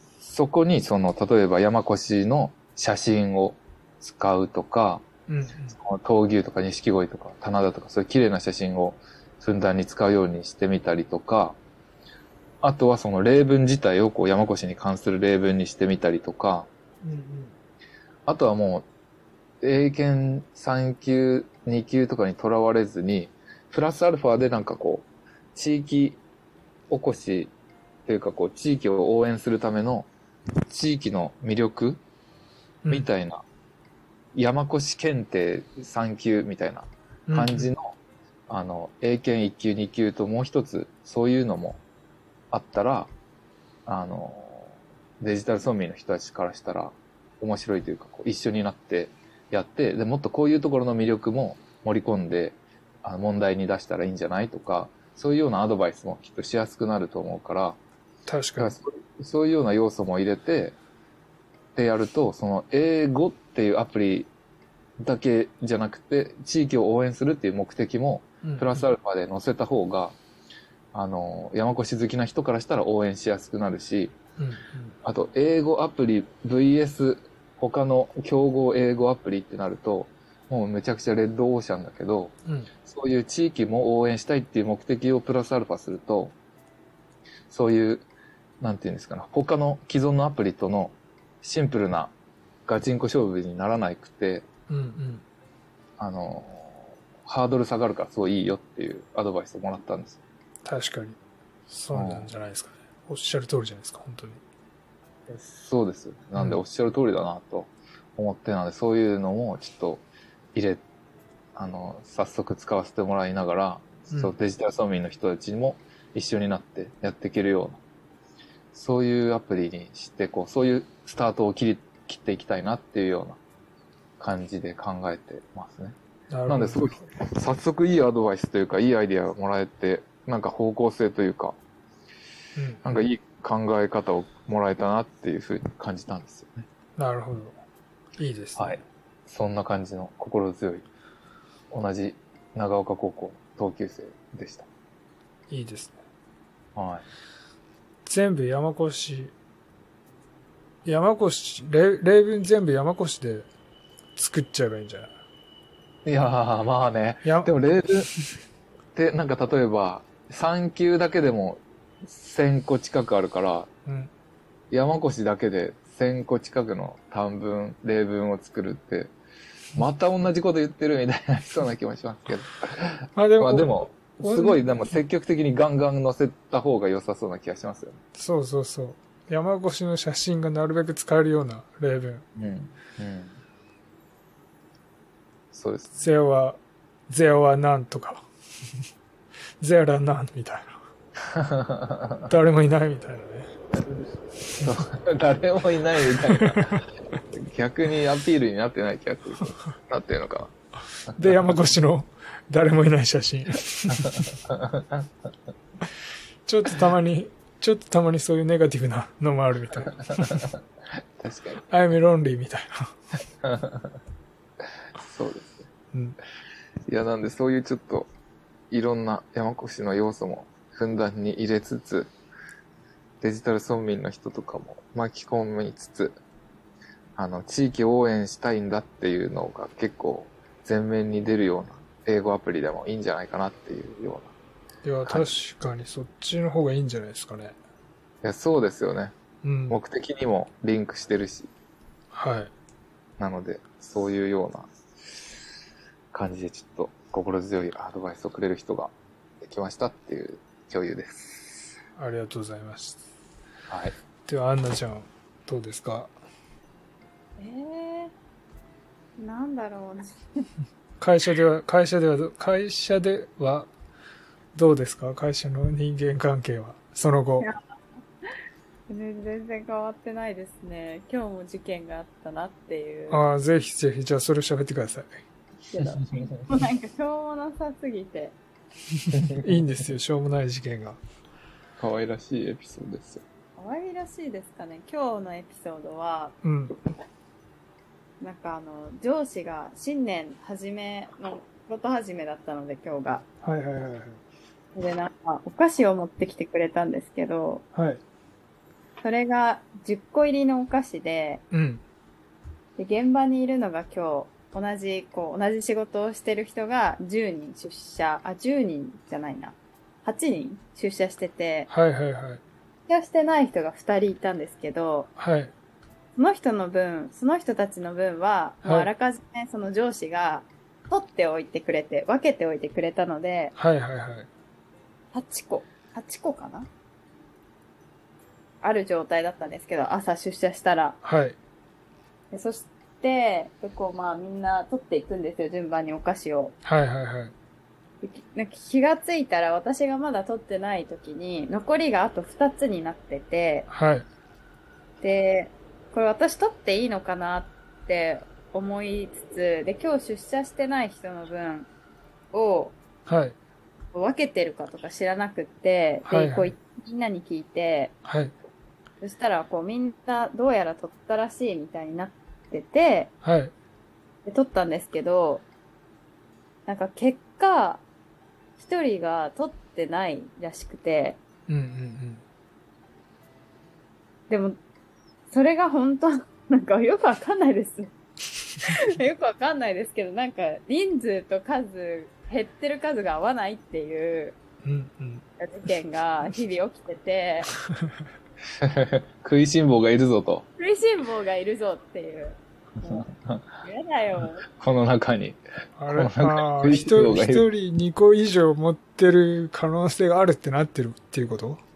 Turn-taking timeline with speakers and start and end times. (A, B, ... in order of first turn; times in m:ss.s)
0:00.2-0:05.0 A
0:05.3-0:05.8 B
0:05.7-0:11.6 A
0:12.6-0:16.7 A
0:17.0-0:17.5 B
0:18.2-0:18.8 A
0:19.6-0:26.2 A
0:26.9-0:27.5 A
0:28.0-0:30.1 A
0:30.7-0:32.0 A
0:32.9-0:33.4 A
0:34.3-0:37.9 A
0:37.3-0:37.7 B
0:38.5-0:41.8 A
0:42.5-0:43.1 A
0:43.8-0:57.8 A
0:58.3-0:58.7 B
0:58.6-1:00.8 A
1:01.7-1:04.3 A
1:05.0-1:10.2 A
1:08.4-1:08.9 B
1:10.9-1:14.1 A
1:14.4-1:15.0 B
1:15.0-1:26.3 A
1:27.5-1:28.0 A
1:28.6-1:32.1 A
1:32.6-1:34.4 A
1:34.7-1:35.2 B
1:36.0-1:40.2 A
1:40.6-1:41.2 B
1:41.7-1:44.4 B
1:41.9-1:42.3 A
1:45.3-1:50.8 A
1:51.6-1:57.8 A
1:58.7-2:03.4 A
2:04.2-2:06.0 A
2:06.3-2:07.1 B
2:06.5-2:11.6 A
2:12.6-2:12.8 B
2:12.8-2:16.6 A
2:17.0-2:17.6 B
2:18.2-2:18.7 B
2:18.6-2:20.8 A
2:21.7-2:24.7 A
2:25.5-2:26.0 B
2:26.7-2:27.0 A
2:28.0-2:29.3 B
2:30.8-2:33.5 B
2:34.2-2:35.1 B
2:36.0-2:38.1 A
2:37.2-2:37.5 B
2:38.9-2:43.7 A
2:43.8-2:44.1 B
2:44.7-2:49.1 A
2:49.7-2:58.0 A
2:53.2-2:54.6 B
2:58.1-3:02.2 B
3:02.4-3:03.4 A
3:05.5-3:06.0 A
3:06.0-3:08.2 B
3:09.6-3:10.8 B
3:11.3-3:12.2 A
3:12.2-3:13.5 B
3:14.6-3:20.5 A
3:16.2-3:16.8 B
3:21.1-3:24.3 B
3:24.0-3:25.0 A
3:26.4-3:30.5 B
3:31.2-3:31.6 A
3:31.7-3:32.9 B
3:33.4-3:33.9 A
3:35.0-3:35.7 A
3:36.9-3:38.1 A
3:38.7-3:42.1 A
3:43.2-3:46.2 A
3:47.2-3:54.3 A
3:54.8-3:57.6 B
3:58.2-3:59.1 A
3:59.4-3:59.8 B
3:59.7-4:01.5 A
4:02.1-4:02.5 B
4:03.2-4:05.2 A
4:06.1-4:11.7 A
4:12.0-4:13.0 B
4:13.7-4:13.9 A
4:14.3-4:16.1 B
4:17.4-4:18.1 C
4:19.2-4:20.4 C
4:21.0-4:23.7 B
4:24.5-4:27.5 B
4:28.9-4:33.2 C
4:33.1-4:35.1 B
4:35.7-4:38.3 C
4:39.0-4:41.0 B
4:39.1-4:39.4 A
4:41.8-4:43.2 A
4:43.6-4:46.3 C
4:46.4-4:46.8 B
4:48.2-4:53.2 C
4:53.4-4:54.2 B
4:54.7-4:57.6 C
4:57.7-4:58.0 B
4:59.0-5:01.4 C
5:01.5-5:01.8 B
5:02.8-5:11.7 C
5:11.7-5:12.4 B
5:12.9-5:15.1 C
5:15.2-5:15.5 B
5:16.2-5:23.5 C
5:23.6-5:24.3 B
5:25.1-5:26.7 C
5:28.6-5:31.0 C
5:31.0-5:31.4 B
5:32.3-5:36.5 C
5:36.6-5:37.3 B
5:38.0-5:43.7 C
5:43.7-5:44.0 B
5:45.0-5:51.7 C
5:52.3-5:52.7 C
5:53.1-5:53.4 B
5:53.9-5:58.0 C
5:56.1-5:56.5 B
5:58.0-5:58.3 B
5:59.0-6:03.1 C
6:03.2-6:03.5 B
6:04.2-6:05.4 C
6:06.6-6:07.8 C
6:08.6-6:11.2 C
6:11.5-6:12.2 B
6:14.3-6:14.6 C
6:15.3-6:17.9 C
6:18.6-6:24.4 C
6:24.6-6:25.2 B
6:25.4-6:27.5 C
6:28.5-6:30.4 A
6:30.6-6:33.1 C
6:33.6-6:34.5 C
6:34.5-6:37.5 A
6:35.8-6:41.6 B